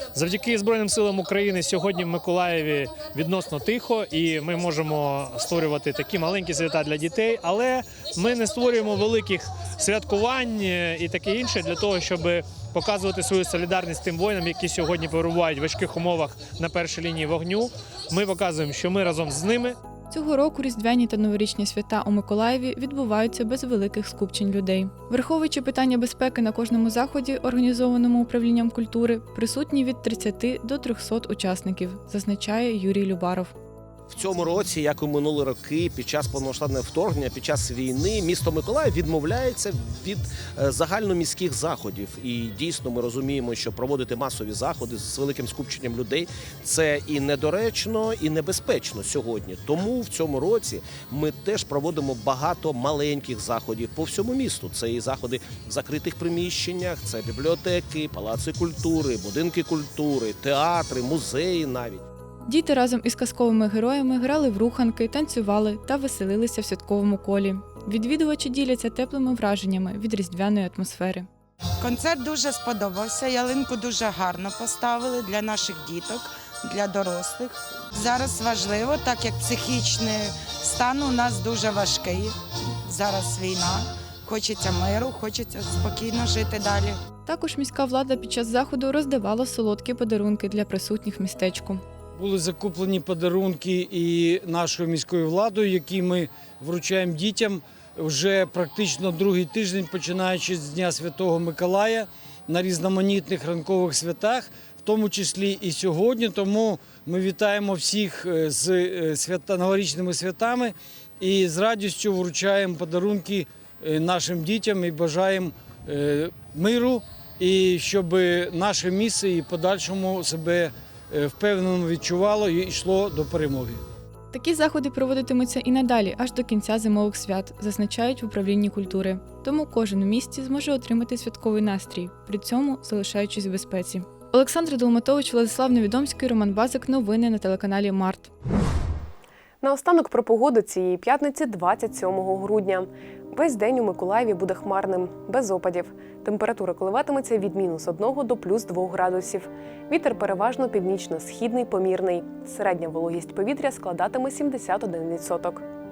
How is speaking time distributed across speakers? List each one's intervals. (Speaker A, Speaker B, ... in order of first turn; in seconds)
Speaker A: 0.1-19.8
Speaker B: 20.1-33.5, 62.5-71.3, 87.3-91.8, 124.3-138.3
Speaker C: 34.1-62.0
Speaker D: 71.8-87.0
Speaker E: 92.1-123.8
Speaker F: 139.6-155.7